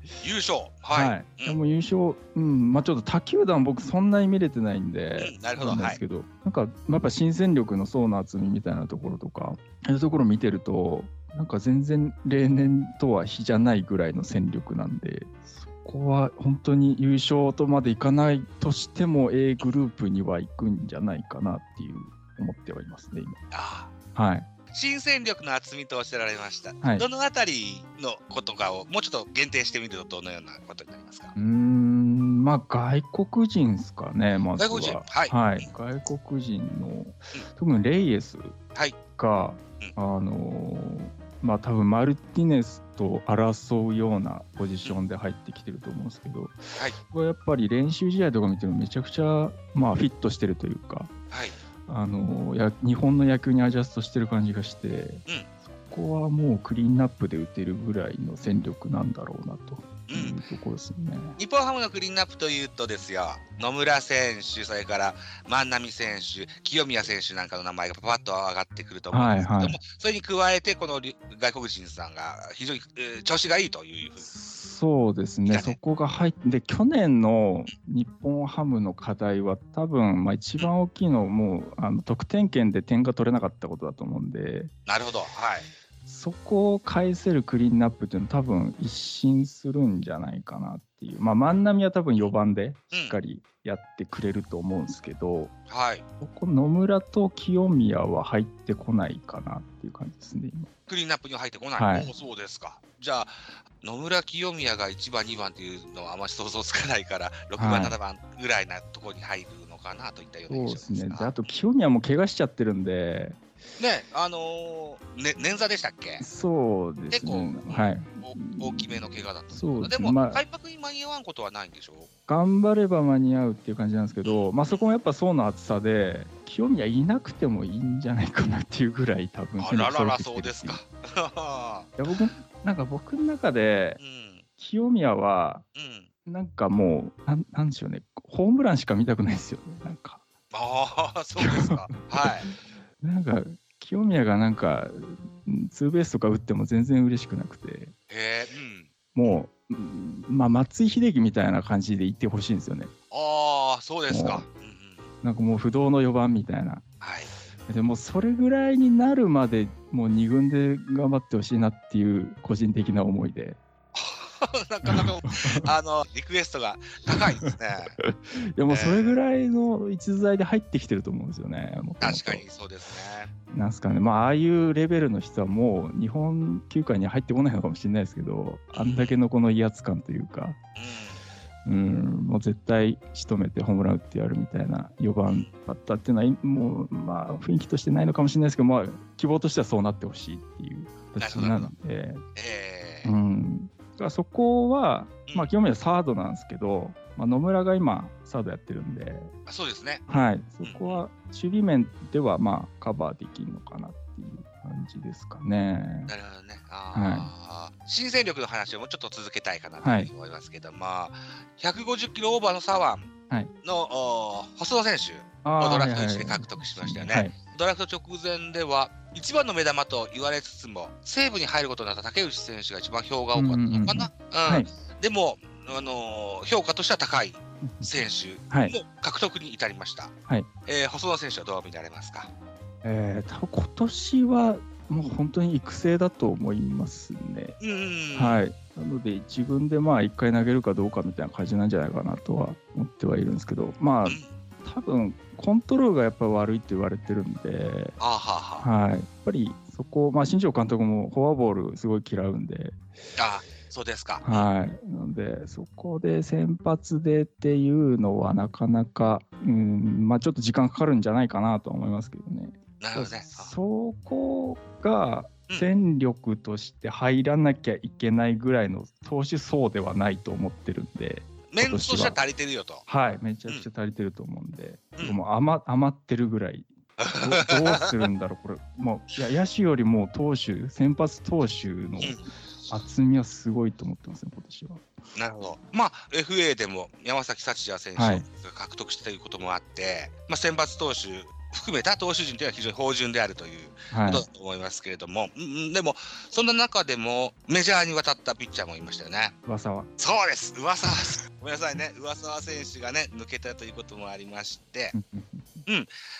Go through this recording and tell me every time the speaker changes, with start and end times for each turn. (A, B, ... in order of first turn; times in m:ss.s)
0:00.2-0:01.6 A
0:00.9-0:23.4 B
0:05.2-0:06.0 A
0:23.5-0:23.9 A
0:24.1-0:24.5 B
0:24.7-0:31.3 A
0:31.4-0:38.6 B
0:34.5-0:35.7 A
0:39.2-0:51.1 B
0:51.8-1:01.4 B
1:00.1-1:00.4 A
1:01.4-1:14.3 A
1:09.1-1:09.8 B
1:14.2-1:24.7 B
1:15.5-1:15.8 A
1:24.9-1:25.7 A
1:26.0-1:35.5 B
1:32.9-1:33.2 A
1:35.7-1:36.0 A
1:36.2-1:40.7 B
1:40.9-1:51.4 A
1:41.8-1:42.1 B
1:47.6-1:48.0 B
1:50.5-1:53.4 B
1:53.8-1:56.2 A
1:56.2-2:00.4 B
1:57.1-2:02.1 A
2:02.3-2:10.8 B
2:04.2-2:04.9 A
2:09.6-2:12.0 A
2:12.0-2:14.0 B
2:14.0-2:14.4 A
2:14.6-2:15.6 B
2:15.8-2:16.1 A
2:16.2-2:20.2 B
2:20.5-2:22.5 A
2:21.4-2:27.9 B
2:28.1-2:29.3 A
2:29.1-2:32.9 B
2:33.1-2:35.1 A
2:34.1-2:34.4 B
2:35.2-2:36.8 B
2:37.0-2:37.3 A
2:37.7-2:43.6 B
2:43.9-2:47.9 A
2:44.8-2:45.7 B
2:47.1-2:52.4 B
2:48.7-2:49.2 A
2:52.0-2:53.3 A
2:53.5-3:00.6 B
2:58.7-2:59.2 A
3:00.8-3:01.2 A
3:01.6-3:12.2 B
3:05.2-3:05.5 A
3:11.1-3:11.7 A
3:12.4-3:13.1 A
3:13.0-3:19.3 B
3:19.5-3:20.1 A
3:20.1-3:26.1 B
3:20.6-3:21.0 A
3:26.1-3:33.1 A
3:26.9-3:27.3 B
3:29.8-3:30.1 B
3:33.6-3:50.1 A
3:35.4-3:37.3 B
3:43.3-3:44.7 B
3:47.6-3:47.9 B
3:48.5-3:48.7 B
3:50.6-3:52.3 A
3:52.8-3:57.6 B
3:57.6-3:58.4 A
3:58.1-4:08.0 B
4:08.0-4:08.7 A
4:08.6-4:12.8 B
4:13.2-4:14.5 A
4:14.2-4:32.2 B
4:22.8-4:23.5 A
4:31.5-4:32.8 A
4:32.9-4:44.8 B
4:37.0-4:37.9 A
4:42.0-4:42.7 A
4:45.1-4:59.4 A
4:48.0-4:48.2 B
4:53.9-4:54.2 B
4:59.4-4:59.9 B
5:00.0-5:04.9 A
5:04.9-5:05.6 B